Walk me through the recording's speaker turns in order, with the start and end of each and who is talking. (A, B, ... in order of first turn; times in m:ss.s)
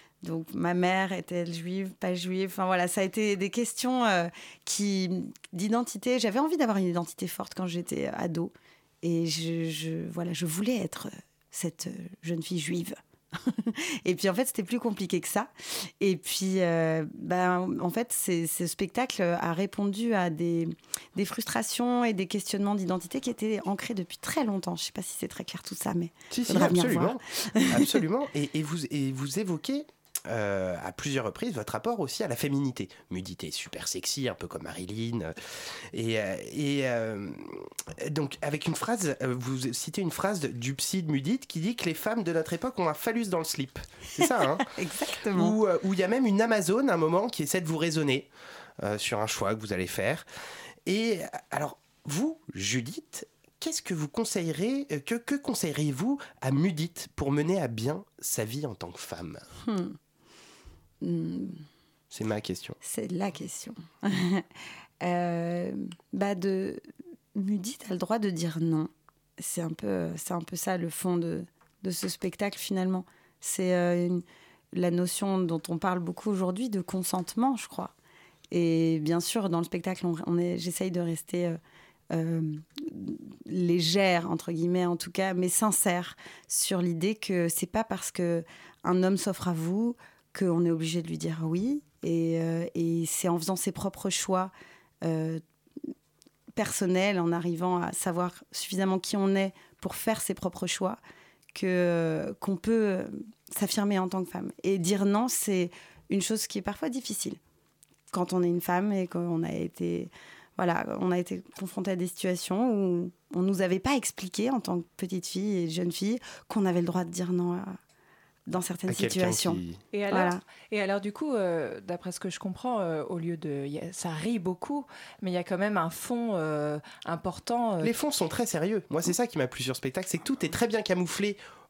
0:00.2-0:28.0 A
0:26.3-0:44.7 B
0:44.6-0:45.6 A
0:45.3-0:48.3 B
0:48.8-0:50.3 B
0:50.9-0:59.5 B
0:59.6-1:00.0 A
1:01.0-1:01.6 A
1:02.1-1:02.8 B
1:02.8-1:04.5 A
1:05.0-1:06.8 A
1:07.4-1:17.9 A
1:18.5-1:21.6 A
1:22.1-1:34.5 A
1:35.0-1:35.4 A
1:36.6-1:41.0 A
1:41.5-1:47.4 A
1:48.1-1:57.8 A
1:58.5-2:00.4 A
1:58.9-1:59.8 B
1:59.9-2:07.9 C
2:07.8-2:11.4 B